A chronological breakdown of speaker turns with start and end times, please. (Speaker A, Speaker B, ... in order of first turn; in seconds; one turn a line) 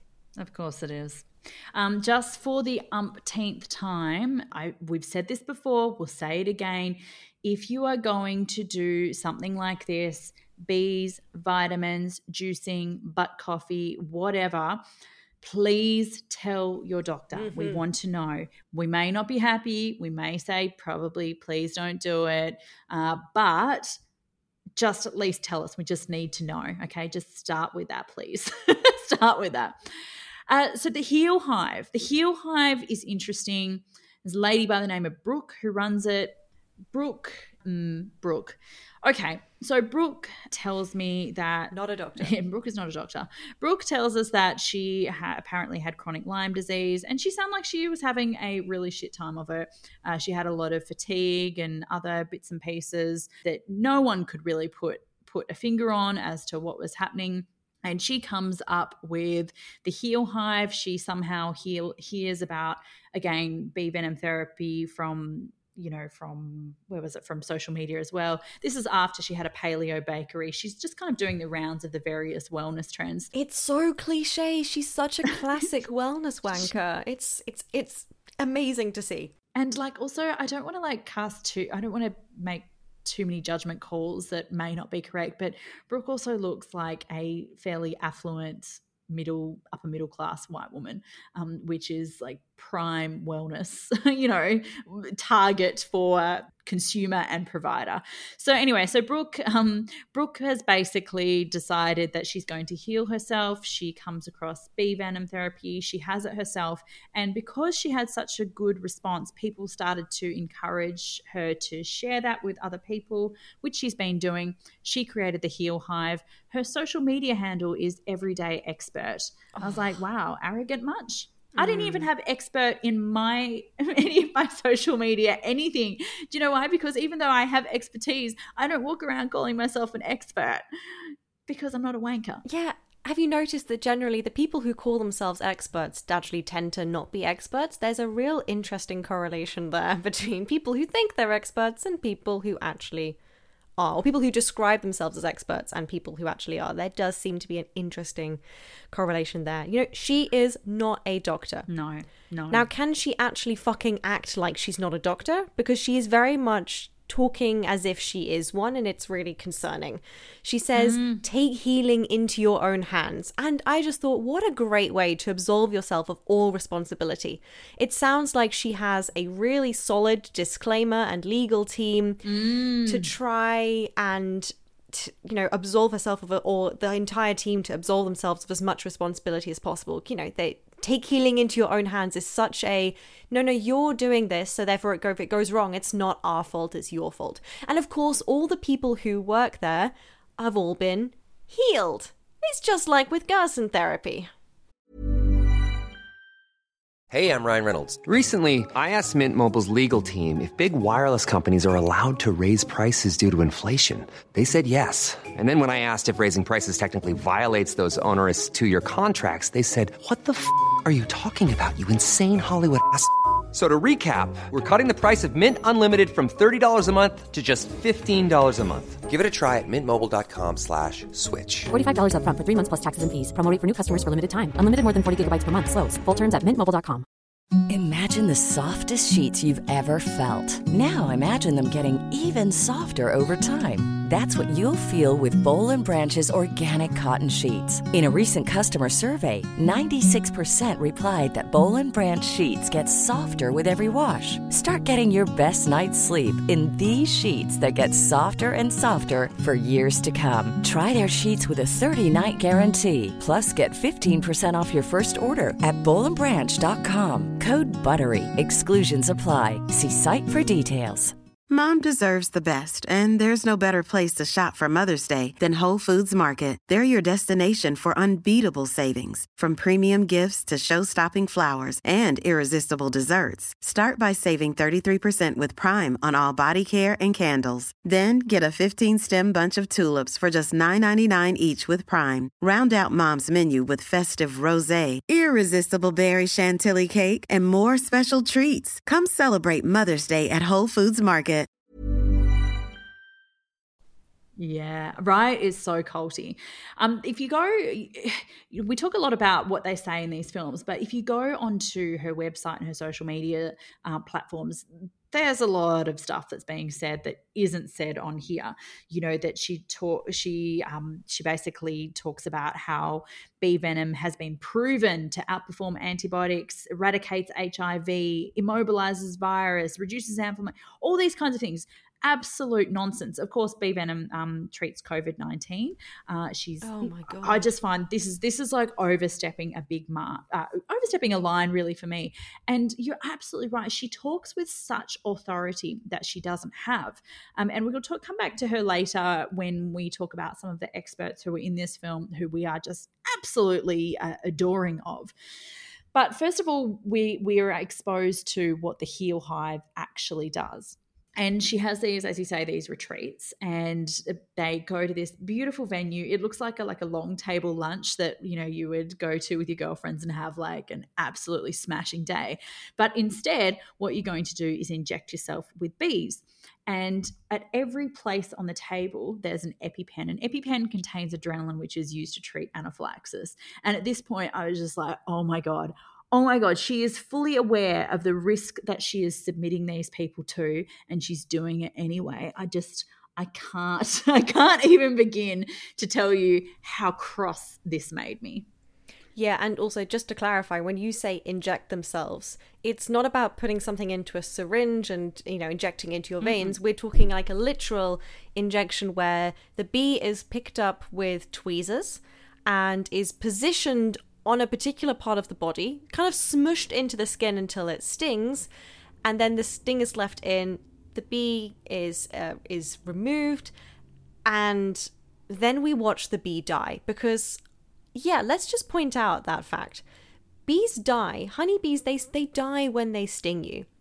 Speaker A: 0.4-14.8
Speaker A: 15.4-24.0
Speaker B: 17.3-17.8
Speaker A: 24.8-29.8
Speaker A: 30.5-36.4
Speaker A: 36.9-73.3
Speaker B: 41.7-42.3
Speaker B: 73.3-79.3
Speaker A: 79.5-132.4
Speaker B: 121.5-122.1
Speaker B: 132.4-143.2
Speaker B: 143.8-148.4
Speaker B: 148.9-151.7
Speaker A: 151.7-152.7
Speaker B: 152.5-172.2
Speaker A: 160.7-161.2
Speaker A: 172.2-173.1
Speaker B: 172.8-194.3
Speaker C: 197.1-221.7
Speaker D: 221.7-227.0
Speaker E: 227.7-261.1
Speaker F: 261.5-291.5
Speaker A: 294.4-345.1
Speaker B: 326.6-327.5
Speaker A: 345.9-388.4
Speaker B: 389.1-408.5
Speaker A: 396.2-396.5
Speaker B: 409.0-413.5
Speaker B: 414.2-417.4
Speaker B: 417.9-419.8
Speaker B: 420.5-423.7